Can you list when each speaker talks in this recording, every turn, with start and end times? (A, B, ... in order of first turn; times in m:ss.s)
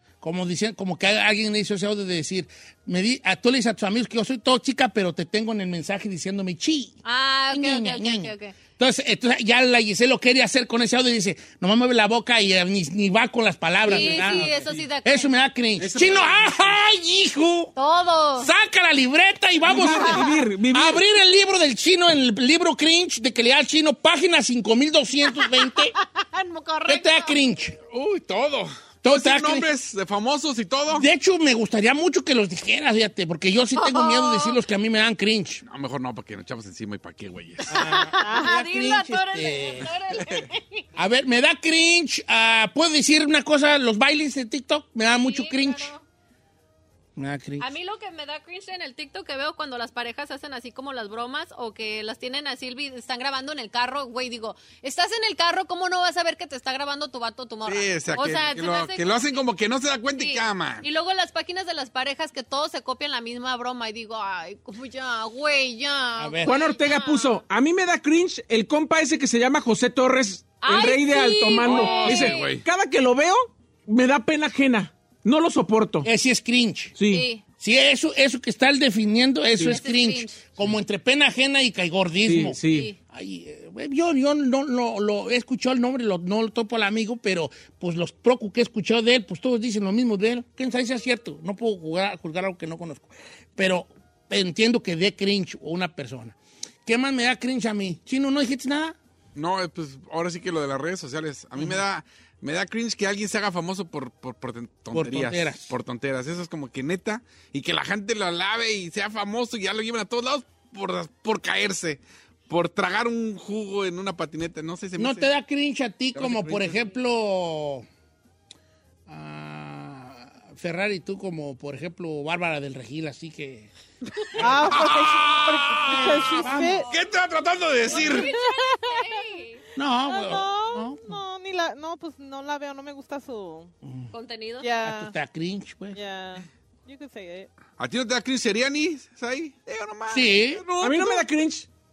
0:00.2-0:07.0 A
0:07.0-0:08.6 B
0:07.5-0:17.7 A
0:13.8-0:15.4 B
0:13.9-0:14.5 C
0:15.8-0:16.7 C
0:17.8-0:18.5 B
0:18.4-0:25.9 A
0:19.7-0:21.0 C
0:25.4-0:27.4 B
0:26.9-0:27.8 A
0:27.9-0:31.1 D
0:29.0-0:29.7 A
0:30.9-0:35.6 A
0:33.8-0:34.6 B
0:35.6-0:37.8 D
0:37.7-0:39.9 A
0:37.7-0:40.8 B
0:41.0-0:45.9 A
0:45.1-0:46.0 B
0:47.2-0:47.7 A
0:47.6-0:59.4 B
0:57.7-1:00.9 D
1:00.2-1:07.4 B
1:06.2-1:06.5 A
1:06.4-1:16.1 C
1:10.6-1:12.5 B
1:11.6-1:12.7 D
1:16.0-1:17.0 A
1:17.0-1:17.3 C
1:17.1-1:17.4 B
1:17.6-1:36.4 A
1:19.7-1:20.4 B
1:22.3-1:22.9 C
1:22.7-1:23.0 B
1:36.9-1:39.0 A
1:39.4-1:55.3 D
1:44.9-1:45.7 A
1:55.0-1:57.9 A
1:56.2-1:56.8 D
1:59.1-2:03.7 A
2:04.2-2:08.3 D
2:04.4-2:04.7 A
2:04.4-2:06.9 E
2:06.3-2:06.9 B
2:06.4-2:06.8 A
2:07.8-2:09.6 B
2:08.2-2:09.2 E
2:09.8-2:11.2 A
2:10.1-2:13.7 E
2:14.1-2:14.7 B
2:14.6-2:15.1 E
2:14.8-2:16.0 A
2:15.9-2:17.5 E
2:17.8-2:21.3 D
2:20.1-2:20.6 A
2:20.8-2:21.7 C